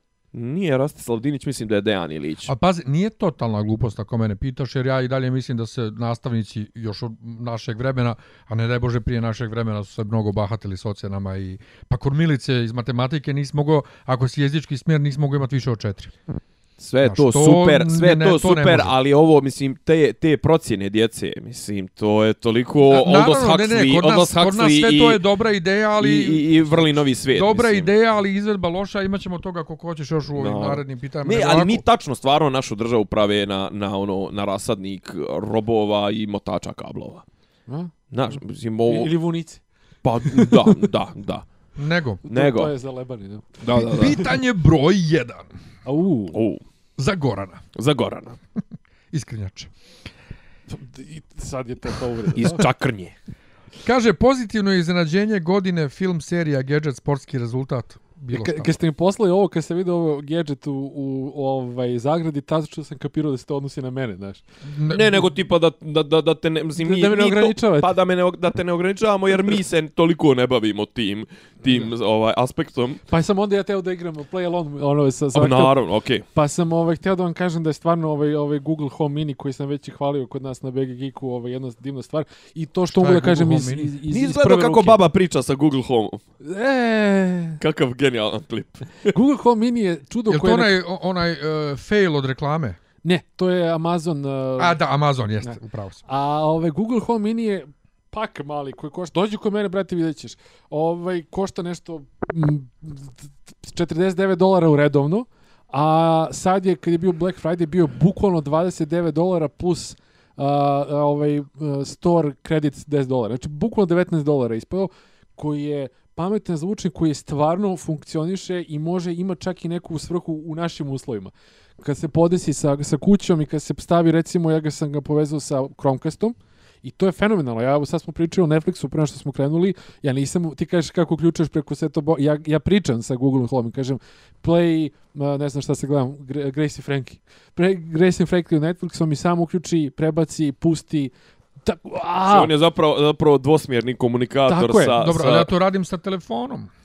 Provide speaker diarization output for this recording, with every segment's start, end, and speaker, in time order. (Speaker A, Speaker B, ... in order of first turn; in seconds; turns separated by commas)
Speaker A: 0.3-2.5, Speaker B: 2.5-16.1, Speaker A: 16.8-25.2, Speaker B: 17.0-18.9, Speaker B: 22.9-26.8, Speaker A: 26.0-27.9, Speaker B: 27.3-31.8, Speaker A: 30.4-37.2, Speaker A: 38.1-39.1, Speaker C: 38.9-39.6, Speaker A: 40.0-41.4, Speaker C: 40.3-40.7, Speaker B: 41.8-42.2, Speaker A: 42.3-42.7, Speaker C: 42.3-43.7, Speaker A: 43.6-44.3, Speaker B: 43.7-45.5, Speaker C: 45.9-46.4, Speaker A: 46.3-46.6, Speaker B: 47.0-47.6, Speaker A: 47.8-48.4, Speaker B: 49.1-49.7, Speaker C: 50.7-52.6, Speaker A: 52.4-53.1, Speaker B: 53.8-58.7, Speaker C: 58.3-64.4, Speaker B: 64.7-65.1, Speaker A: 64.9-73.0, Speaker C: 66.8-67.9, Speaker C: 73.1-75.7, Speaker A: 75.3-76.2, Speaker C: 76.3-85.0, Speaker B: 82.9-83.9, Speaker A: 84.1-86.2, Speaker C: 86.4-87.6, Speaker A: 87.6-89.1, Speaker C: 89.1-90.8, Speaker B: 90.3-92.8, Speaker C: 93.0-94.8, Speaker B: 94.6-96.0, Speaker C: 95.4-142.5, Speaker A: 142.2-145.5, Speaker C: 144.5-145.0, Speaker B: 145.0-146.7